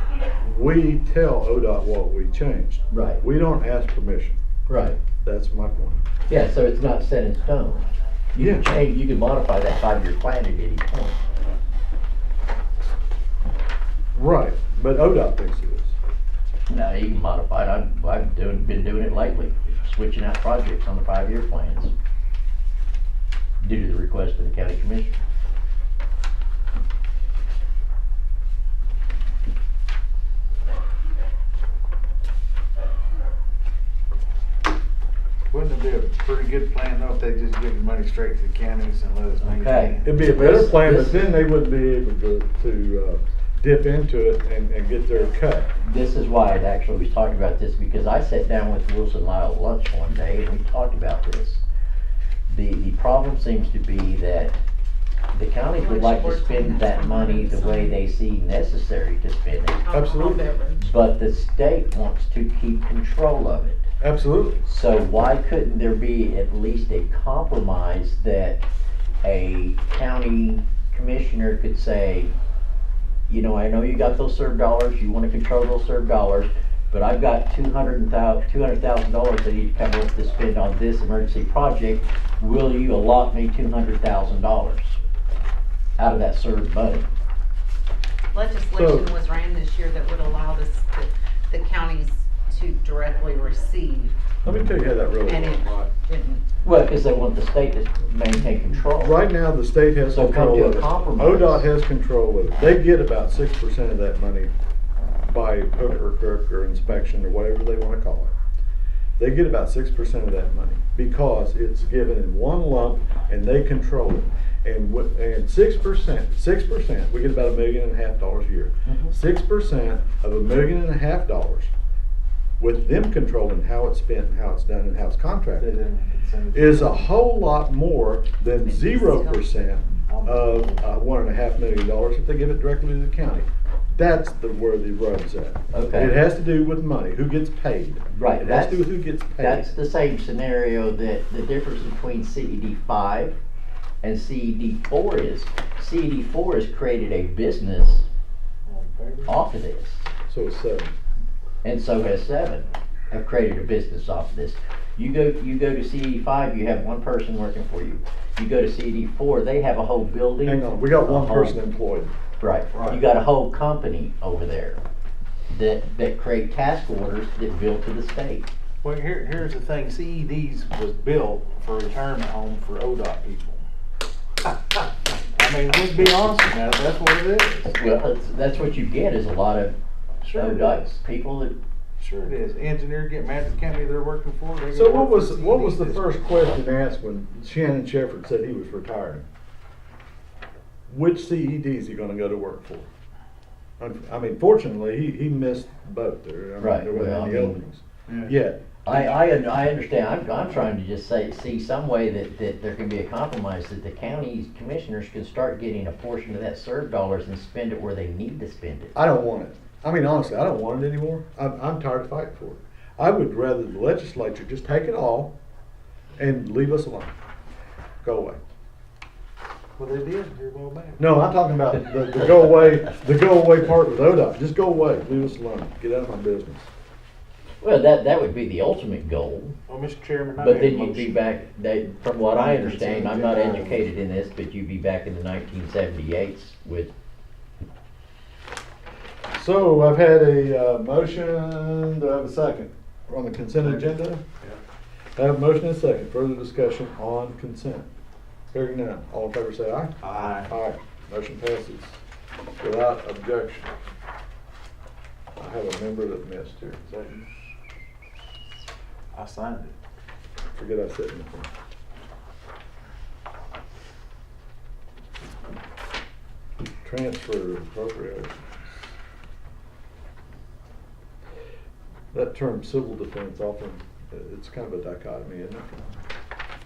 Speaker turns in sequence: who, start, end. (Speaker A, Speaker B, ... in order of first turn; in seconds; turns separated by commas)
Speaker A: 0.4-4.4, Speaker B: 2.9-3.2, Speaker B: 4.7-5.0, Speaker A: 5.2-6.0, Speaker B: 6.3-11.2, Speaker A: 8.4-8.7, Speaker A: 14.1-15.9, Speaker B: 16.7-21.9, Speaker B: 23.6-25.2, Speaker C: 35.5-40.4, Speaker B: 39.5-41.3, Speaker A: 40.0-45.7, Speaker B: 45.8-51.6, Speaker B: 52.5-54.6, Speaker B: 55.3-59.8, Speaker D: 55.7-58.0, Speaker D: 59.8-60.9, Speaker A: 59.9-60.4, Speaker B: 60.8-63.9, Speaker A: 64.0-64.6, Speaker B: 64.7-68.6, Speaker B: 69.2-72.3, Speaker B: 73.3-85.0, Speaker B: 86.0-87.1, Speaker D: 88.3-94.2, Speaker A: 88.7-89.1, Speaker A: 94.4-95.9, Speaker D: 95.2-96.4, Speaker B: 96.6-99.2, Speaker A: 99.0-104.5, Speaker B: 100.1-101.7, Speaker A: 105.3-108.3, Speaker A: 109.2-121.7, Speaker C: 118.9-119.1, Speaker A: 122.6-125.7, Speaker C: 125.5-127.1, Speaker A: 126.5-139.7, Speaker D: 128.6-129.5, Speaker C: 130.1-130.8, Speaker B: 135.7-136.1, Speaker B: 138.1-143.4, Speaker B: 144.0-148.1, Speaker C: 148.6-149.4, Speaker B: 149.3-150.1, Speaker A: 150.3-150.9, Speaker B: 151.6-161.6, Speaker A: 160.4-162.1, Speaker B: 162.4-164.8, Speaker C: 162.7-163.0, Speaker B: 165.5-168.5, Speaker C: 168.8-173.6, Speaker C: 175.3-177.7, Speaker B: 177.7-179.8, Speaker C: 180.2-180.9, Speaker B: 180.3-181.5, Speaker C: 182.0-186.3, Speaker A: 184.7-189.2, Speaker A: 190.9-192.9, Speaker A: 193.8-198.6, Speaker B: 196.6-197.6, Speaker C: 198.1-198.3, Speaker B: 198.8-208.9, Speaker A: 208.9-215.3, Speaker A: 216.2-217.1, Speaker A: 218.0-218.4, Speaker C: 219.8-221.1, Speaker A: 221.0-226.7, Speaker B: 227.6-229.5, Speaker C: 229.7-231.2, Speaker B: 230.4-236.9, Speaker C: 232.3-233.8, Speaker A: 239.3-244.2, Speaker A: 245.2-247.9, Speaker A: 248.5-252.0, Speaker C: 250.0-250.5, Speaker A: 252.6-253.7, Speaker A: 255.4-256.9, Speaker C: 256.9-257.3, Speaker C: 259.1-259.7, Speaker A: 260.5-261.5, Speaker A: 266.8-268.9, Speaker A: 272.1-275.9